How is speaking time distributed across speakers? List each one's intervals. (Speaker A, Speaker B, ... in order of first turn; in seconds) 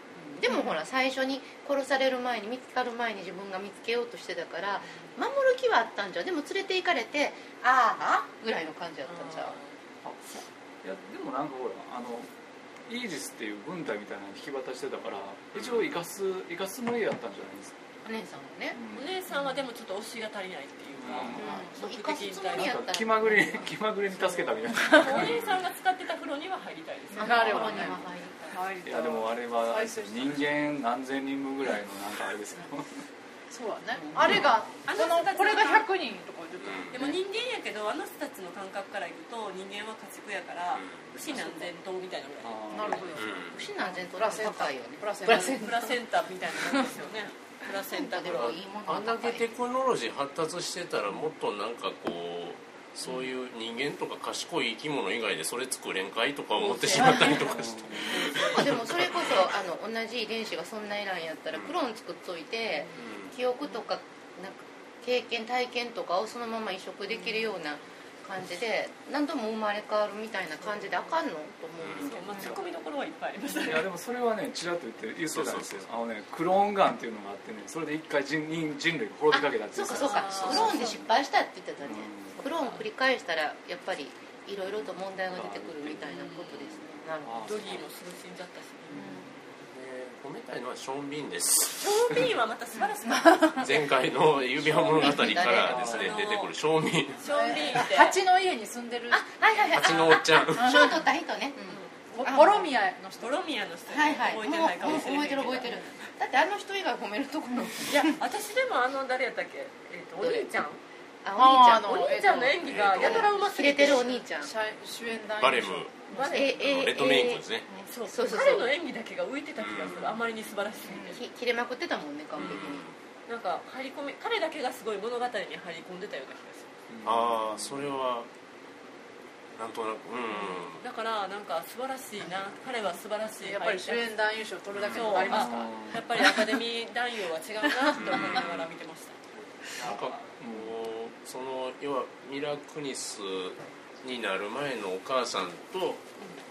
Speaker A: 0.3-9.6, 18.0-18.8, 21.3-23.7, 27.2-28.6, 34.0-34.4, 41.3-41.7, 43.5-45.8, 47.8-49.5, 58.3-72.6, 79.3-87.8, 88.9-89.3, 94.6-95.9, 99.1-102.7, 103.9-108.2, 110.2-110.5, 111.2-112.1, 113.0-114.5, 116.2-117.5, 118.0-118.8, 121.1-122.8
Speaker B: 0.5-0.8, 21.4-21.7, 24.7-25.2, 27.1-30.5, 33.5-37.2, 42.7-45.8, 56.8-57.5, 93.0-93.7, 97.2-99.2, 100.5-101.1, 102.1-103.4, 111.4-116.6, 120.9-121.2, 133.4-136.6
Speaker C: 9.1-9.8, 18.9-22.9, 24.9-28.0, 34.8-35.9, 36.9-43.2, 45.3-48.6, 58.0-58.7, 62.8-63.1, 67.1-67.5, 70.7-71.0, 72.0-73.9, 80.0-80.9, 82.6-82.8, 86.1-86.6, 87.4-89.0, 91.8-93.8, 95.8-96.5, 97.2-98.2, 101.6-102.1, 103.2-106.1, 107.9-110.8, 111.8-114.1, 116.1-116.6, 117.8-121.2, 123.3-126.7, 130.3-134.1, 134.9-139.2
Speaker D: 10.0-12.3, 12.9-17.8, 18.7-19.1, 20.9-21.6, 22.5-25.4, 28.8-33.0, 42.4-43.1, 57.4-58.3, 72.3-72.6, 73.5-81.1, 81.8-82.4, 85.3-86.1, 87.2-87.8, 88.9-89.4, 95.5-96.2, 126.9-127.9, 135.3-136.1, 139.7-140.8
Speaker E: 15.6-15.9, 25.1-25.6, 36.6-37.0, 40.7-41.1, 43.1-43.7, 48.3-59.5, 63.0-63.4, 71.8-72.1, 75.3-75.8, 89.6-92.2, 93.6-97.2, 99.7-100.9, 112.6-113.3, 115.4-117.7, 119.6-120.2, 122.3-123.0, 127.0-128.3, 129.5-130.8, 134.8-135.0, 138.0-138.7, 139.8-146.1